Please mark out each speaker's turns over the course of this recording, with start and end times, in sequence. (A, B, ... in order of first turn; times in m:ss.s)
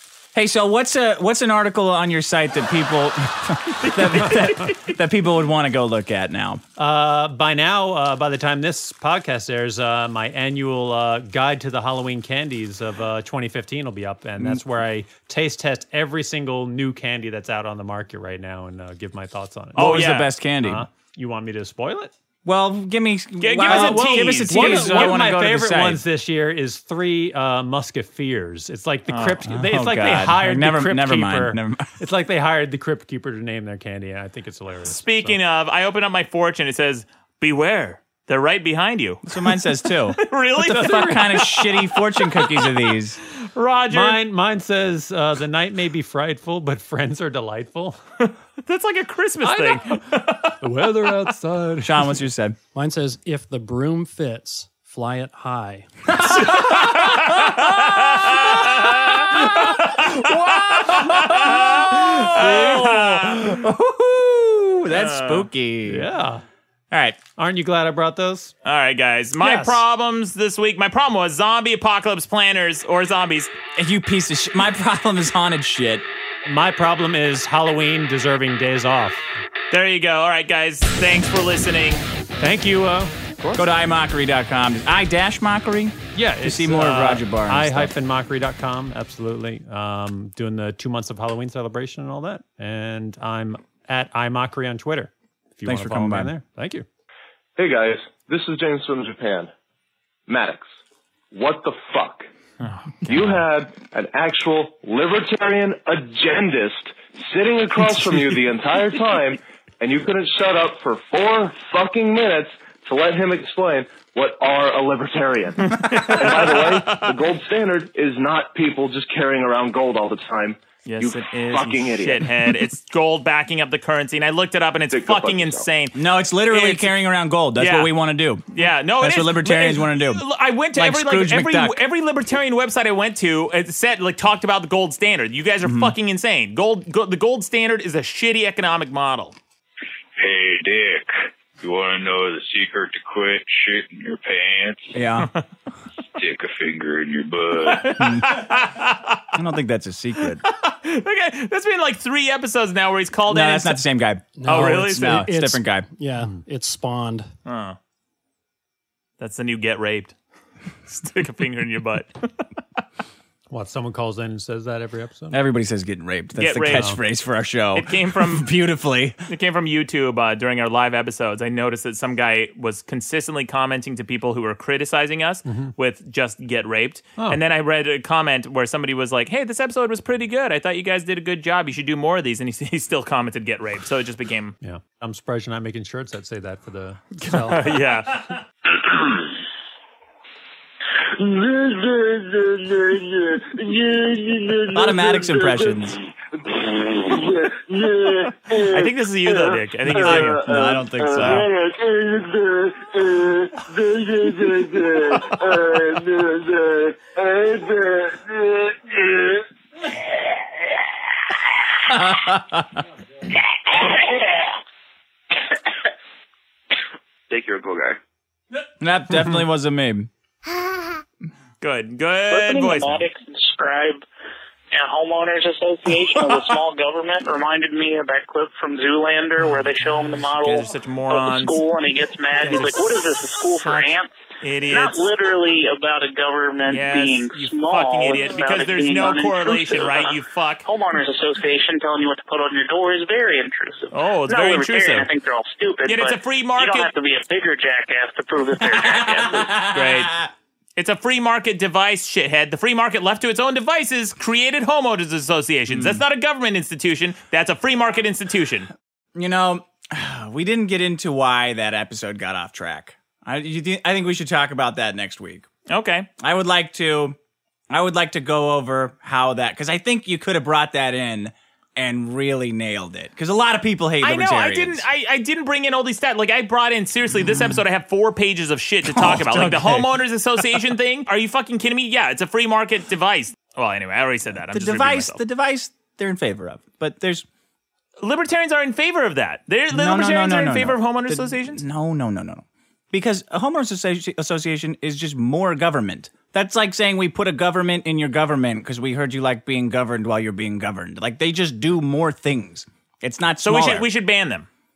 0:00.3-0:06.6 A
0:03.8-0:04.9 B
0:04.0-0:04.6 C
0:06.8-0:22.1 C
0:19.8-0:20.8 A
0:19.8-0:20.3 B
0:22.4-0:26.0 A
0:23.4-0:25.2 B
0:23.6-0:35.4 C
0:29.1-0:29.4 B
0:29.4-0:31.9 A
0:34.8-0:42.9 B
0:39.2-0:43.2 A
0:43.5-0:44.2 B
0:43.9-0:48.0 C
0:48.2-0:50.5 B
0:49.4-0:50.0 C
0:50.6-0:52.1 C
0:51.8-0:52.6 A
0:52.7-0:55.9 D
0:56.2-1:06.1 A
0:56.4-1:00.1 B
1:00.7-1:03.6 B
1:04.9-1:05.5 B
1:05.8-1:06.4 C
1:06.9-1:07.2 A
1:07.4-1:08.5 C
1:08.6-1:13.5 B
1:09.4-1:09.7 A
1:13.7-1:16.0 A
1:16.5-1:19.2 C
1:19.7-1:22.0 B
1:22.4-1:23.1 C
1:23.6-1:27.9 A
1:26.1-1:36.8 C
1:35.6-1:36.3 A
1:37.6-1:39.5 E
1:40.3-1:40.7 E
1:41.3-1:42.3 E
1:42.6-1:43.4 B
1:43.1-2:02.5 E
1:55.6-1:57.1 B
2:00.8-2:05.9 B
2:04.9-2:05.7 E
2:05.9-2:10.2 A
2:06.5-2:06.9 B
2:07.6-2:07.9 B
2:08.5-2:19.4 B
2:10.7-2:11.8 A
2:15.6-2:15.9 A
2:20.2-2:24.9 F
2:24.9-2:25.3 A
2:26.2-2:28.2 F
2:27.6-2:29.2 B
2:28.0-2:28.4 A
2:29.3-2:30.4 A
2:30.2-2:33.8 B
2:33.3-2:35.9 A
2:34.4-2:37.3 D
2:34.4-2:35.2 B
2:37.4-2:37.8 B
2:39.2-2:40.2 B
2:40.9-2:42.4 B
2:43.5-2:45.4 C
2:45.3-2:49.2 A
2:46.4-2:46.9 B
2:46.7-2:47.0 C
2:47.7-2:48.5 B
2:49.3-3:04.5 B
2:55.5-2:55.7 C
3:04.6-3:07.7 C
3:07.2-3:08.4 B
3:11.1-3:29.4 E
3:14.7-3:16.0 A
3:18.7-3:20.5 B
3:19.9-3:21.4 A
3:31.9-3:32.8 A
3:38.8-3:40.1 A
3:41.6-3:43.0 B
3:42.3-3:44.0 G
3:44.7-3:54.1 G
3:50.4-3:51.6 B
3:52.4-3:52.9 B
3:53.6-3:55.1 B
3:54.7-4:09.5 G
3:56.6-4:00.7 B
4:03.9-4:05.1 B
4:05.9-4:06.9 B
4:08.6-4:10.3 A
4:09.7-4:10.1 B
4:10.8-4:18.7 B
4:15.7-4:16.0 A
4:19.1-4:25.5 A
4:25.7-4:26.1 B
4:26.2-4:27.2 A
4:27.7-4:34.8 A
4:34.0-4:45.2 B
4:38.8-4:39.9 A
4:44.5-4:47.2 A
4:48.0-4:51.6 B
4:49.7-5:03.9 A
5:03.4-5:04.5 B